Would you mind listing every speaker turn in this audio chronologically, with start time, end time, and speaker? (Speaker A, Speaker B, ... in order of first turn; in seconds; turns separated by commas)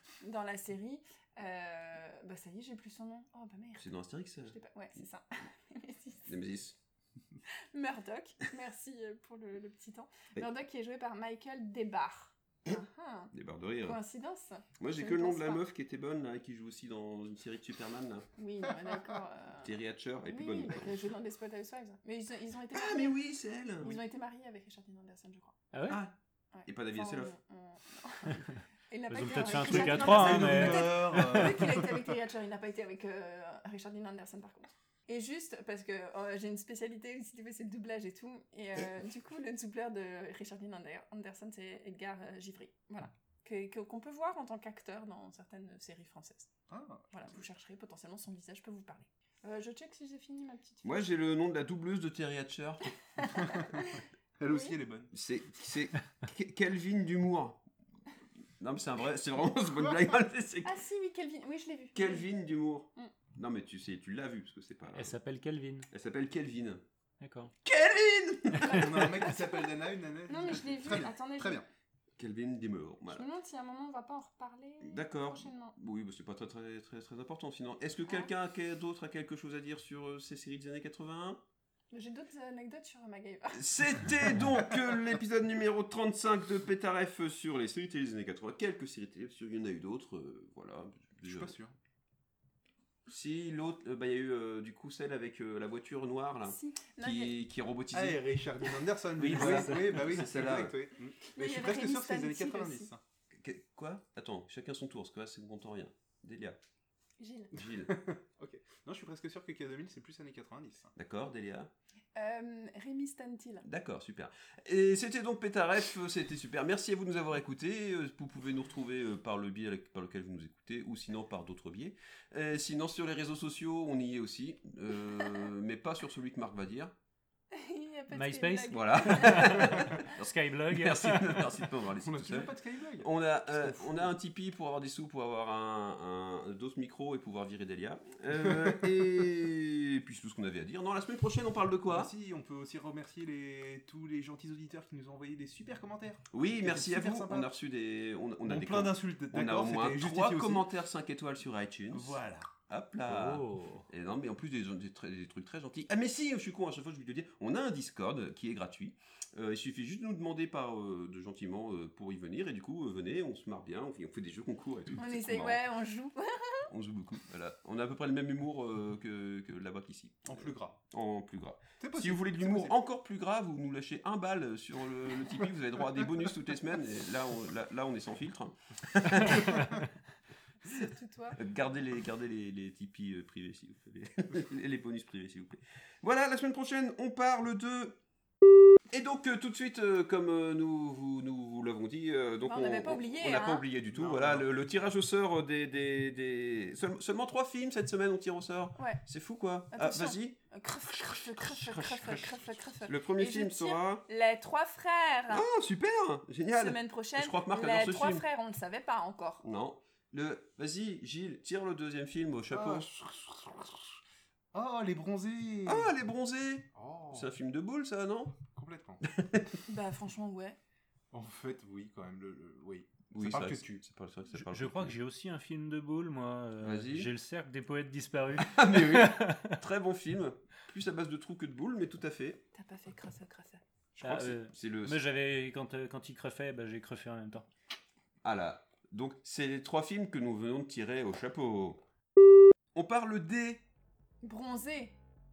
Speaker A: 0.2-3.9, Speaker B: 3.8-4.6, Speaker A: 4.5-6.3, Speaker B: 6.3-6.8, Speaker A: 7.7-13.3, Speaker B: 13.3-14.0, Speaker A: 13.8-15.6, Speaker B: 14.8-18.3, Speaker A: 18.4-23.2, Speaker B: 19.6-20.9, Speaker B: 22.7-24.0, Speaker A: 23.8-25.6, Speaker C: 25.7-26.0, Speaker B: 25.9-26.1, Speaker A: 26.5-46.5, Speaker B: 26.7-27.3, Speaker C: 29.1-31.6, Speaker D: 29.5-32.0, Speaker D: 46.7-47.4, Speaker A: 47.1-51.0, Speaker B: 50.8-53.6, Speaker A: 53.2-54.8, Speaker D: 54.4-55.1, Speaker B: 55.1-57.6, Speaker B: 58.6-60.7, Speaker A: 60.6-62.3, Speaker B: 61.9-65.2, Speaker C: 64.9-65.9, Speaker B: 65.9-66.8, Speaker C: 67.2-67.5, Speaker B: 67.6-69.2, Speaker D: 68.6-71.7, Speaker A: 68.6-69.7, Speaker A: 70.3-71.6, Speaker B: 72.2-73.3, Speaker A: 73.1-75.7, Speaker B: 74.8-81.4, Speaker A: 78.0-78.3, Speaker A: 81.9-84.0, Speaker B: 83.5-91.5, Speaker D: 91.2-91.7, Speaker B: 93.1-98.2, Speaker A: 96.4-97.3, Speaker D: 97.9-103.0, Speaker C: 99.2-100.2, Speaker B: 99.2-100.7, Speaker A: 101.2-102.9, Speaker B: 103.4-106.6, Speaker A: 107.2-107.5, Speaker B: 107.5-107.9, Speaker D: 107.5-110.9, Speaker B: 111.0-111.7, Speaker A: 112.2-113.6, Speaker B: 113.6-126.9, Speaker A: 127.5-129.6, Speaker C: 128.1-131.6, Speaker B: 128.7-142.1, Speaker D: 132.0-134.1, Speaker D: 141.9-147.5, Speaker B: 146.3-165.6, Speaker D: 148.4-150.7, Speaker D: 151.9-152.5, Speaker C: 153.1-153.9, Speaker A: 165.0-166.7, Speaker B: 166.7-179.8, Speaker D: 170.2-170.8, Speaker D: 171.8-172.8, Speaker A: 180.6-181.4, Speaker B: 180.7-188.0, Speaker B: 188.9-200.4, Speaker A: 192.4-193.6, Speaker D: 193.9-194.6, Speaker A: 198.8-199.0, Speaker A: 199.7-205.4, Speaker B: 200.9-204.0, Speaker B: 205.3-208.2, Speaker A: 206.6-209.4, Speaker B: 209.4-212.9, Speaker D: 212.5-213.8, Speaker D: 214.5-215.9, Speaker B: 215.7-218.4, Speaker D: 216.7-217.3, Speaker D: 218.5-219.0, Speaker B: 219.0-219.6, Speaker A: 219.7-220.6, Speaker D: 221.1-223.8, Speaker B: 223.1-224.9, Speaker C: 224.3-229.6, Speaker B: 226.6-227.1, Speaker B: 228.4-232.4, Speaker A: 232.5-233.6, Speaker B: 233.9-235.0, Speaker C: 234.0-237.5, Speaker B: 238.2-241.8, Speaker B: 242.7-243.6, Speaker A: 244.2-244.9